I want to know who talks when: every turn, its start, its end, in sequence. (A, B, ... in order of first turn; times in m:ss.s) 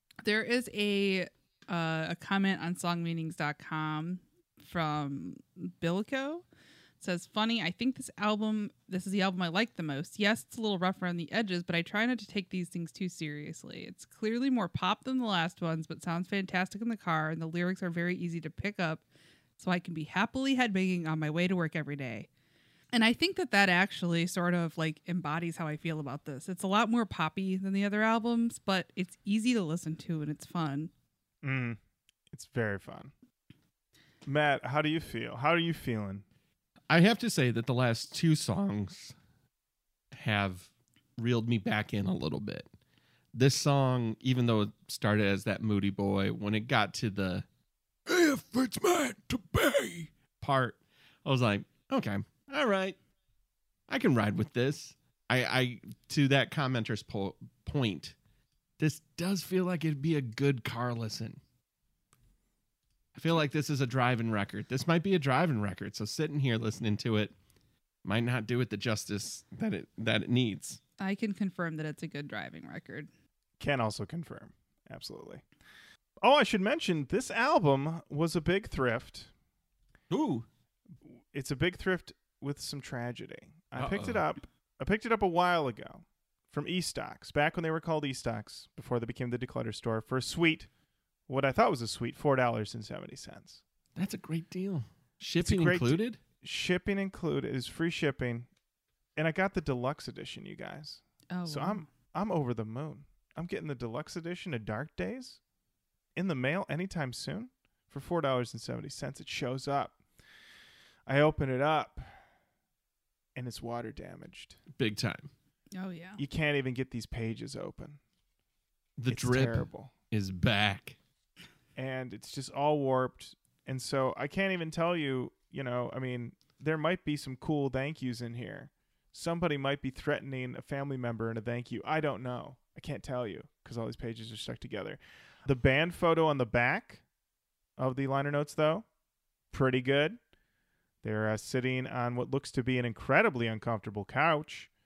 0:00.2-0:06.4 A
0:07.0-0:19.0 A
0:19.6-0:22.3 A
0:22.9-0:30.9 A
0:31.4-0:31.8 B
0:32.3-0:33.1 B
0:34.2-0:36.2 B
0:36.9-0:39.2 C
0:40.1-0:42.7 C
0:43.3-0:47.5 C
0:48.1-0:53.0 C
0:53.9-0:58.2 C
0:58.8-1:01.4 C
1:03.2-1:07.4 C
1:08.0-1:10.8 C
1:11.0-1:13.1 A
1:13.6-1:15.4 B
1:16.2-1:19.3 B
1:20.1-1:20.5 C
1:21.1-1:30.7 B
1:23.8-1:24.3 C
1:31.3-1:33.6 B
1:34.0-1:36.2 C
1:35.4-1:38.5 B
1:39.2-1:45.4 B
1:41.3-1:41.9 A
1:46.2-1:50.0 B
1:51.1-1:52.2 B
1:53.4-1:54.6 B
1:54.8-1:55.3 C
1:55.8-1:56.2 A
1:56.2-1:58.0 B
1:59.0-2:01.0 C
1:59.1-1:59.9 B
2:01.8-2:17.0 B
2:17.8-2:18.9 B
2:19.5-2:20.2 B
2:21.0-2:24.7 B